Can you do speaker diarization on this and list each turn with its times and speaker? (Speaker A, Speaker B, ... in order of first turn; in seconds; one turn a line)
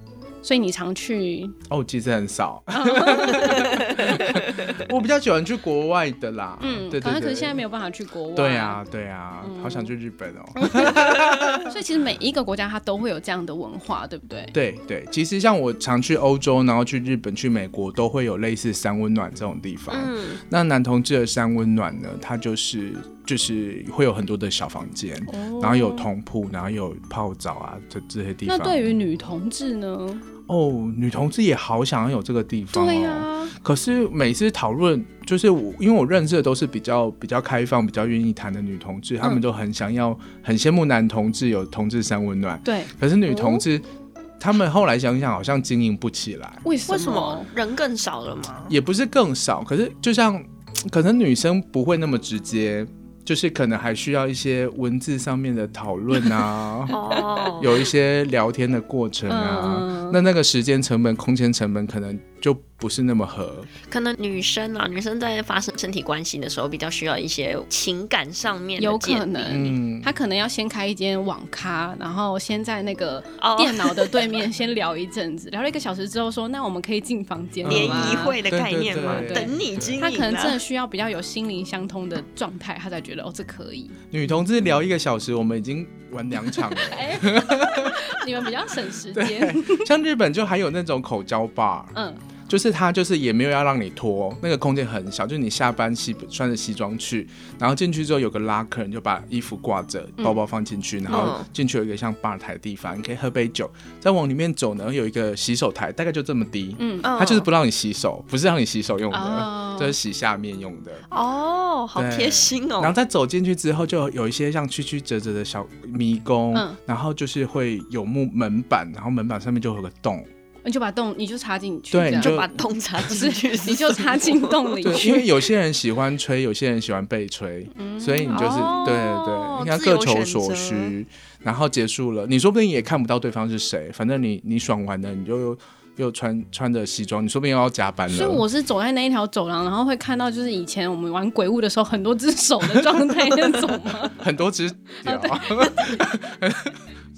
Speaker A: 0.4-1.6
Speaker B: 1.7-7.6
Speaker A: 2.7-4.3
Speaker C: 3.5-4.7
Speaker A: 6.6-8.8
Speaker B: 8.3-11.8
Speaker A: 9.4-9.9
Speaker A: 10.6-14.5
Speaker B: 14.5-28.9
Speaker C: 19.9-20.4
Speaker A: 25.3-26.1
Speaker A: 28.5-30.2
Speaker B: 30.5-43.9
Speaker A: 32.7-33.5
Speaker A: 42.6-43.6
Speaker B: 44.4-46.6
Speaker A: 46.6-47.5
Speaker C: 46.9-48.7
Speaker B: 48.7-57.0
Speaker C: 56.9-57.9
Speaker B: 57.6-63.7
Speaker A: 59.3-60.2
Speaker C: 63.9-69.6
Speaker A: 68.8-78.4
Speaker B: 69.5-70.1
Speaker C: 73.4-74.4
Speaker B: 77.6-80.0
Speaker C: 77.7-80.6
Speaker A: 79.0-84.0
Speaker B: 84.1-88.2
Speaker A: 86.6-89.9
Speaker B: 89.1-91.9
Speaker A: 91.9-92.2
Speaker B: 92.5-111.0
Speaker C: 101.1-101.5
Speaker A: 106.8-107.1
Speaker C: 107.0-107.5
Speaker A: 109.1-109.9
Speaker C: 111.1-112.9
Speaker B: 112.0-120.3
Speaker A: 116.5-116.8
Speaker A: 120.6-122.4
Speaker B: 121.9-122.5
Speaker C: 122.2-124.9
Speaker A: 123.1-125.4
Speaker B: 124.8-138.4
Speaker A: 127.8-128.7
Speaker C: 128.3-130.9
Speaker A: 138.1-144.2
Speaker B: 142.7-143.5
Speaker B: 144.2-146.8
Speaker A: 145.0-146.1